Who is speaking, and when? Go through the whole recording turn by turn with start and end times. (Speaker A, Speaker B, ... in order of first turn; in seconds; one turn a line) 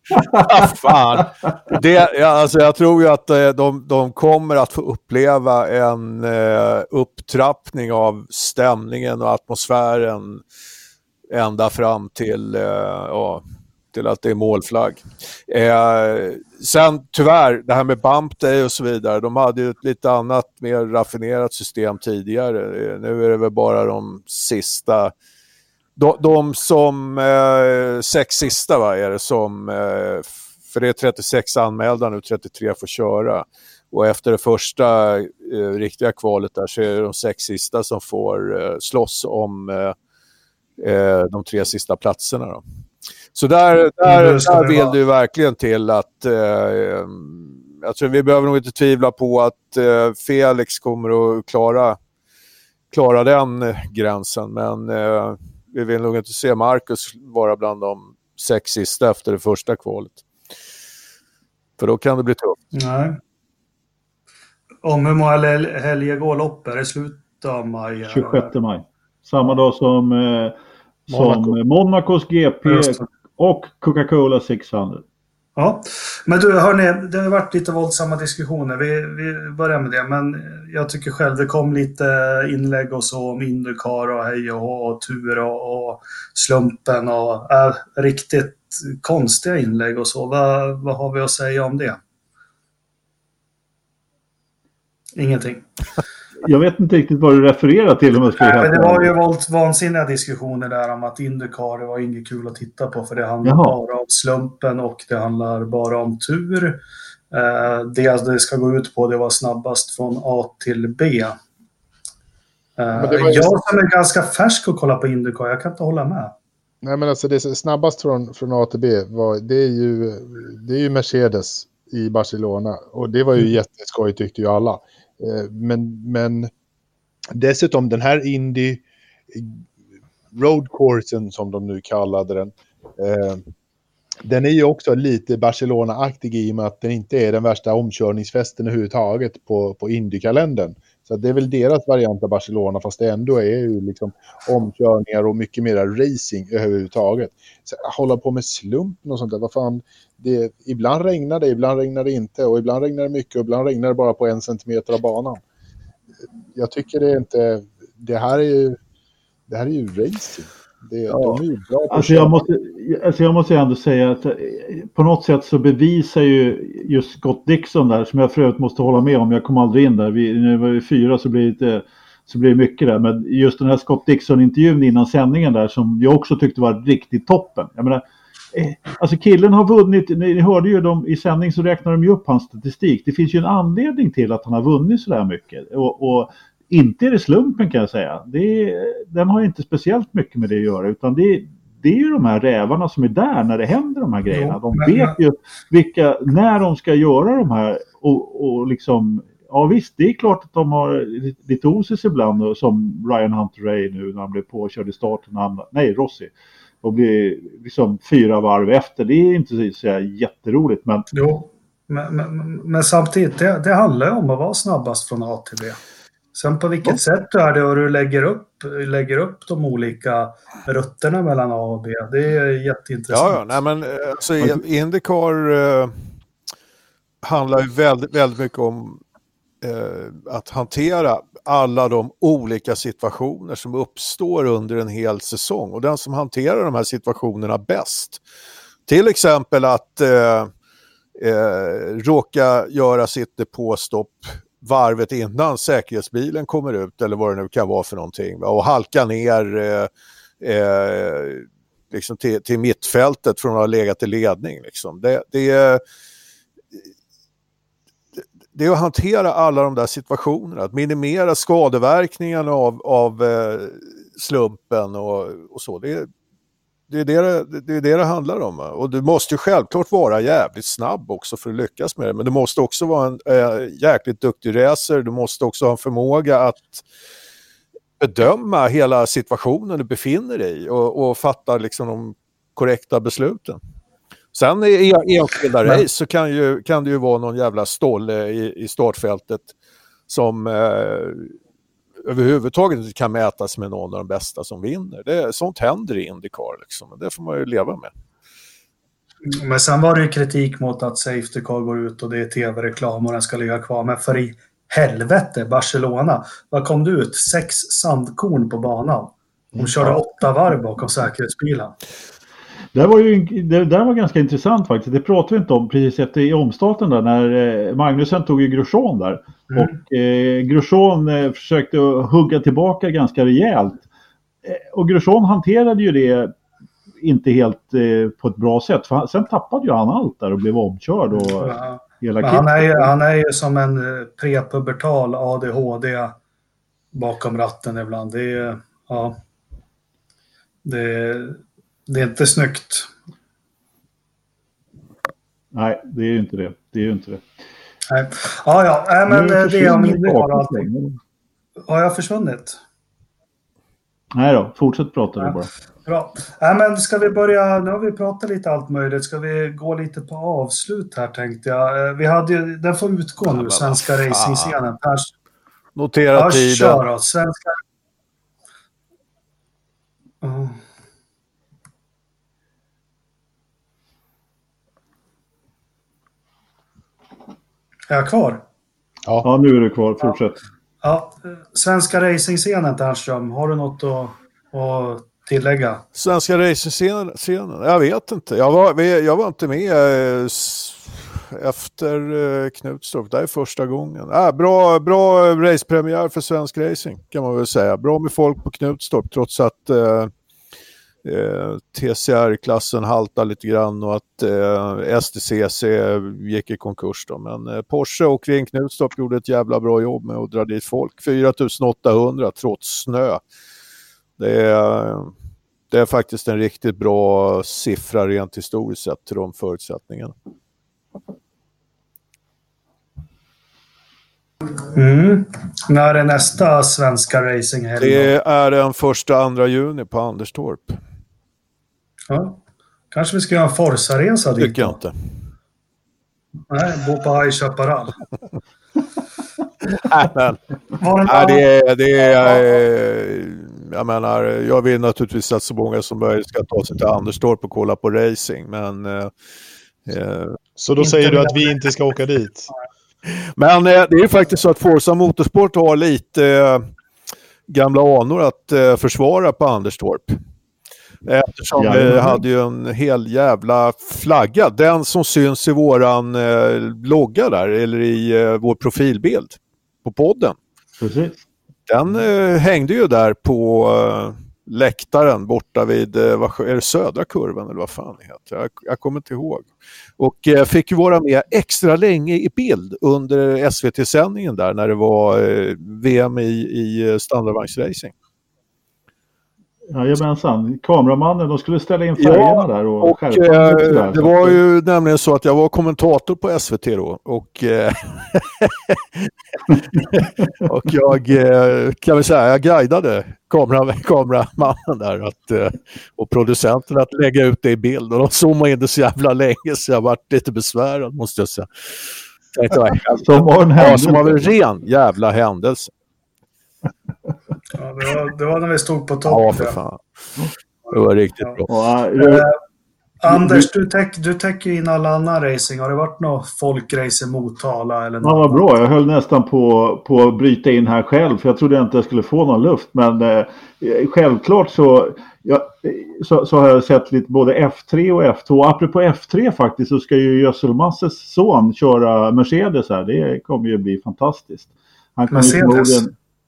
Speaker A: 0.1-1.8
Speaker B: 0.4-10.4
Speaker B: 11.3-25.1
Speaker B: 25.9-39.9
Speaker B: 40.8-42.6
Speaker B: 43.3-52.0
Speaker C: 44.0-45.0
Speaker B: 52.9-60.2
Speaker B: 61.8-62.6
Speaker C: 62.7-63.2
Speaker C: 64.8-68.5
Speaker A: 68.0-70.5
Speaker C: 71.1-71.6
Speaker A: 71.1-75.0
Speaker C: 72.7-73.0
Speaker C: 75.6-92.0
Speaker C: 95.2-95.7
Speaker A: 96.4-99.1
Speaker C: 98.4-106.8
Speaker A: 103.4-103.8
Speaker C: 107.3-111.4
Speaker C: 112.8-116.3
Speaker D: 112.9-113.5
Speaker D: 116.8-126.5
Speaker D: 127.3-129.6
Speaker D: 130.3-133.4
Speaker D: 134.2-155.4
Speaker D: 156.5-158.8
Speaker D: 159.5-162.5
Speaker B: 161.1-161.4
Speaker A: 161.9-178.0
Speaker A: 178.5-206.3
Speaker C: 194.3-195.1
Speaker A: 206.8-211.1
Speaker C: 211.1-215.8
Speaker C: 216.3-223.6
Speaker B: 223.1-225.9
Speaker B: 227.2-229.0
Speaker B: 229.6-238.2
Speaker B: 238.9-240.5
Speaker B: 241.2-249.9
Speaker B: 250.4-255.8
Speaker B: 258.5-266.1
Speaker B: 266.9-276.8
Speaker B: 278.0-283.6
Speaker B: 284.3-289.5
Speaker B: 290.1-291.3
Speaker B: 292.0-297.9
Speaker C: 299.2-311.7
Speaker D: 309.5-309.9
Speaker A: 312.7-323.9
Speaker A: 324.4-326.3
Speaker A: 327.0-332.9
Speaker C: 331.1-336.1
Speaker C: 336.9-339.2
Speaker C: 340.6-342.9
Speaker A: 345.5-347.2
Speaker C: 347.9-350.7
Speaker A: 349.1-351.0
Speaker C: 351.7-352.6
Speaker A: 354.1-355.5
Speaker C: 355.2-365.1
Speaker B: 363.3-364.6
Speaker B: 365.7-366.8
Speaker C: 366.1-367.6
Speaker C: 370.2-370.6
Speaker C: 377.9-378.4
Speaker A: 379.2-380.4
Speaker C: 380.8-385.8
Speaker B: 385.9-400.1
Speaker B: 401.0-413.2
Speaker B: 414.2-415.1
Speaker B: 415.7-420.1
Speaker C: 424.7-428.1
Speaker B: 427.8-430.8
Speaker C: 432.1-432.4
Speaker C: 432.9-434.8
Speaker B: 434.4-434.9
Speaker C: 436.5-438.0
Speaker B: 439.8-440.4
Speaker C: 440.8-441.4
Speaker B: 441.1-449.1
Speaker B: 449.9-450.4
Speaker D: 450.6-452.5
Speaker C: 450.8-451.5
Speaker B: 453.1-456.6
Speaker B: 457.5-460.2
Speaker B: 461.0-470.4
Speaker A: 461.6-462.2
Speaker A: 470.8-471.2
Speaker B: 471.7-487.9
Speaker A: 489.7-494.4
Speaker B: 492.0-515.7
Speaker A: 513.0-514.2
Speaker C: 517.5-519.5
Speaker B: 519.0-519.8
Speaker B: 520.7-521.5
Speaker A: 521.5-522.2
Speaker C: 522.0-522.4
Speaker C: 523.0-528.4
Speaker A: 523.1-523.5
Speaker A: 528.0-545.9
Speaker C: 545.1-545.8